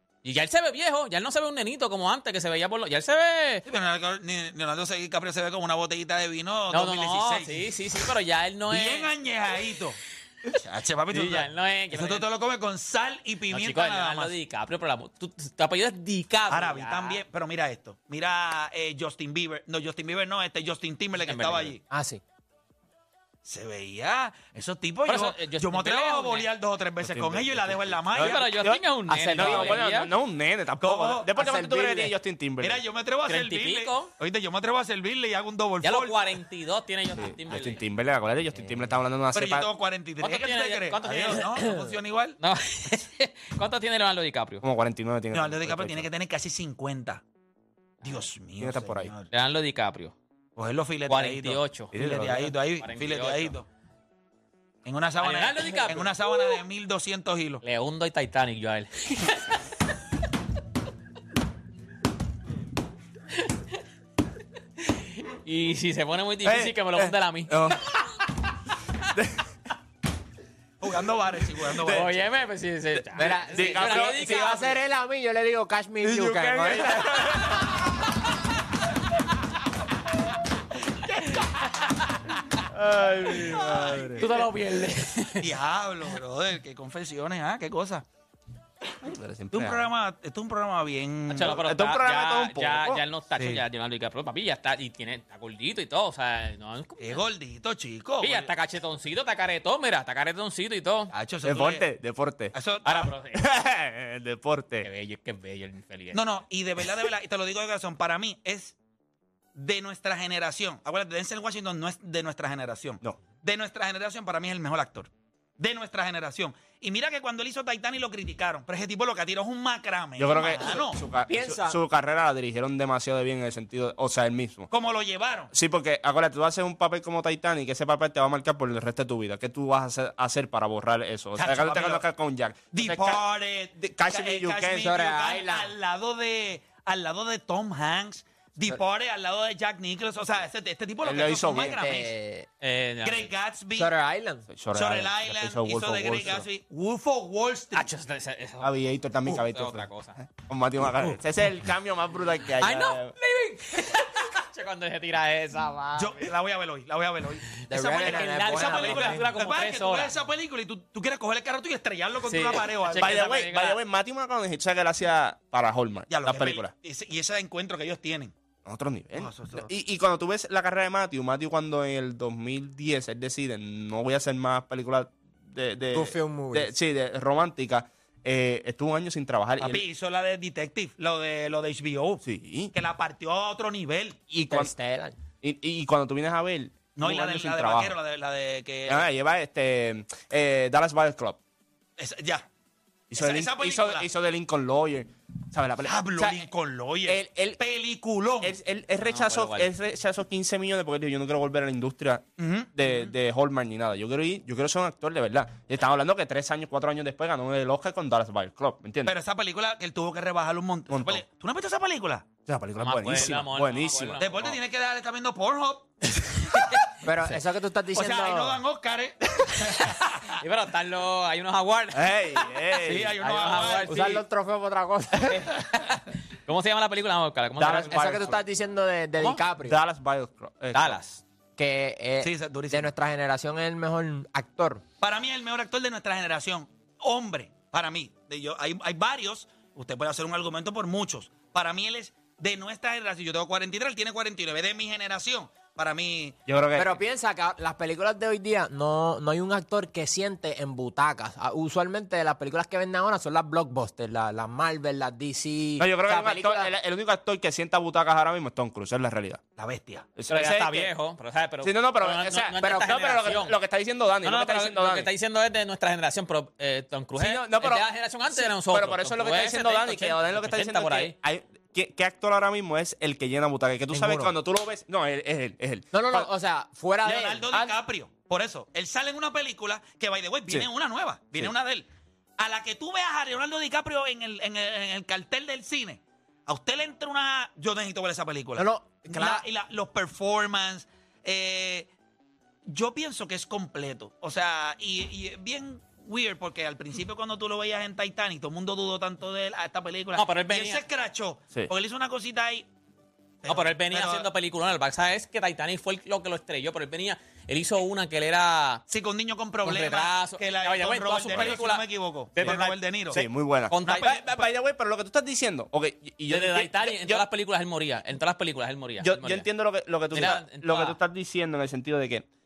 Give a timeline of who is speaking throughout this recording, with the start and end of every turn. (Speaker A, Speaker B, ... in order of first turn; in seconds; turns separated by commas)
Speaker A: 0.2-3.6, Speaker B: 3.7-7.6, Speaker A: 6.7-9.1, Speaker B: 8.7-10.0, Speaker B: 10.5-14.3, Speaker A: 11.1-12.2, Speaker A: 13.5-17.2, Speaker B: 16.5-21.8, Speaker A: 21.2-21.7, Speaker C: 21.9-22.2, Speaker B: 23.4-28.4, Speaker A: 25.1-26.5, Speaker D: 27.0-32.8, Speaker A: 28.1-30.1, Speaker C: 29.1-29.8, Speaker B: 30.8-31.3, Speaker C: 31.4-32.1, Speaker B: 32.6-36.2, Speaker A: 33.3-34.1, Speaker A: 35.8-37.8, Speaker D: 37.1-39.7, Speaker B: 39.3-42.4, Speaker A: 40.2-44.6, Speaker D: 44.6-46.1, Speaker B: 45.3-47.2, Speaker A: 48.0-48.3, Speaker B: 48.0-49.3, Speaker D: 48.6-49.1, Speaker A: 49.3-50.1, Speaker B: 50.5-53.6, Speaker A: 51.1-53.5, Speaker D: 51.9-52.5, Speaker B: 54.8-57.6, Speaker A: 55.2-56.6, Speaker A: 57.6-59.6, Speaker A: 64.8-68.0, Speaker D: 66.4-67.8, Speaker D: 69.1-69.4, Speaker B: 70.8-72.1, Speaker A: 71.9-74.8, Speaker C: 73.2-77.3, Speaker D: 73.5-74.6, Speaker D: 76.0-77.7, Speaker B: 81.2-81.4, Speaker D: 82.7-84.3, Speaker B: 83.6-84.4, Speaker A: 84.2-85.5, Speaker B: 85.4-88.0, Speaker D: 89.0-89.9, Speaker B: 89.5-91.6, Speaker A: 91.3-97.2, Speaker D: 91.5-93.0, Speaker B: 93.3-93.6, Speaker B: 97.0-98.5, Speaker A: 98.2-101.1, Speaker B: 101.1-101.8, Speaker D: 101.4-102.5, Speaker B: 102.5-103.1, Speaker A: 102.8-103.4, Speaker D: 103.3-104.9, Speaker A: 104.8-106.2, Speaker B: 106.1-108.7, Speaker B: 109.5-121.0, Speaker D: 120.2-124.7, Speaker C: 121.3-121.8, Speaker B: 124.7-125.5, Speaker D: 125.5-133.2, Speaker B: 131.4-132.0, Speaker B: 132.7-142.1, Speaker D: 133.8-134.9, Speaker C: 134.8-135.7, Speaker D: 141.0-141.8, Speaker C: 141.6-142.5, Speaker A: 142.6-143.3, Speaker B: 143.0-143.9, Speaker C: 143.8-144.5, Speaker D: 144.5-146.4, Speaker B: 144.7-147.9, Speaker A: 147.7-148.7, Speaker D: 148.6-153.1, Speaker A: 149.2-150.2, Speaker A: 152.6-156.3, Speaker B: 155.9-163.4, Speaker C: 157.7-159.3, Speaker A: 157.8-160.1, Speaker A: 162.2-163.8, Speaker D: 163.0-166.7, Speaker B: 166.1-168.3, Speaker D: 168.6-179.8, Speaker B: 169.1-169.7, Speaker C: 175.9-176.7, Speaker B: 179.6-182.2, Speaker D: 182.2-182.7, Speaker B: 182.7-184.2, Speaker D: 184.3-184.7, Speaker C: 184.4-185.1, Speaker D: 185.4-187.9, Speaker B: 187.0-189.1, Speaker D: 188.9-191.4, Speaker B: 192.0-192.5, Speaker D: 193.1-196.4, Speaker B: 193.2-194.1, Speaker B: 195.8-198.6, Speaker D: 197.1-197.6, Speaker D: 198.4-209.1, Speaker A: 199.0-199.7, Speaker B: 202.4-203.1, Speaker B: 209.0-212.3, Speaker D: 210.9-211.2, Speaker D: 212.4-214.5, Speaker A: 212.8-214.6, Speaker B: 214.2-215.9, Speaker B: 216.5-216.8, Speaker C: 217.0-218.6, Speaker B: 217.9-220.4, Speaker A: 220.4-222.5, Speaker D: 221.9-223.2, Speaker B: 222.8-223.9, Speaker A: 223.2-224.2, Speaker C: 223.9-225.5, Speaker A: 226.4-228.0, Speaker D: 227.6-228.4, Speaker C: 227.6-229.8, Speaker D: 229.2-231.0, Speaker A: 230.7-231.2, Speaker C: 231.6-234.8, Speaker B: 232.2-232.9, Speaker B: 235.0-246.4, Speaker D: 246.5-246.9, Speaker C: 246.7-256.7, Speaker D: 255.8-259.4, Speaker B: 259.6-260.1, Speaker D: 260.1-260.9, Speaker A: 260.3-263.6, Speaker D: 261.6-265.1, Speaker A: 264.2-271.1, Speaker D: 267.2-276.3, Speaker C: 273.9-274.3, Speaker C: 275.9-277.7, Speaker B: 277.0-281.9, Speaker B: 282.4-291.9, Speaker C: 288.6-289.4, Speaker B: 292.7-302.7, Speaker A: 300.1-300.8, Speaker B: 303.4-304.2, Speaker A: 303.5-308.8, Speaker B: 308.9-313.2, Speaker A: 309.6-314.2, Speaker D: 311.3-311.6, Speaker D: 312.4-317.2, Speaker B: 313.8-314.2, Speaker A: 316.3-319.4, Speaker D: 319.0-322.2, Speaker A: 320.1-321.0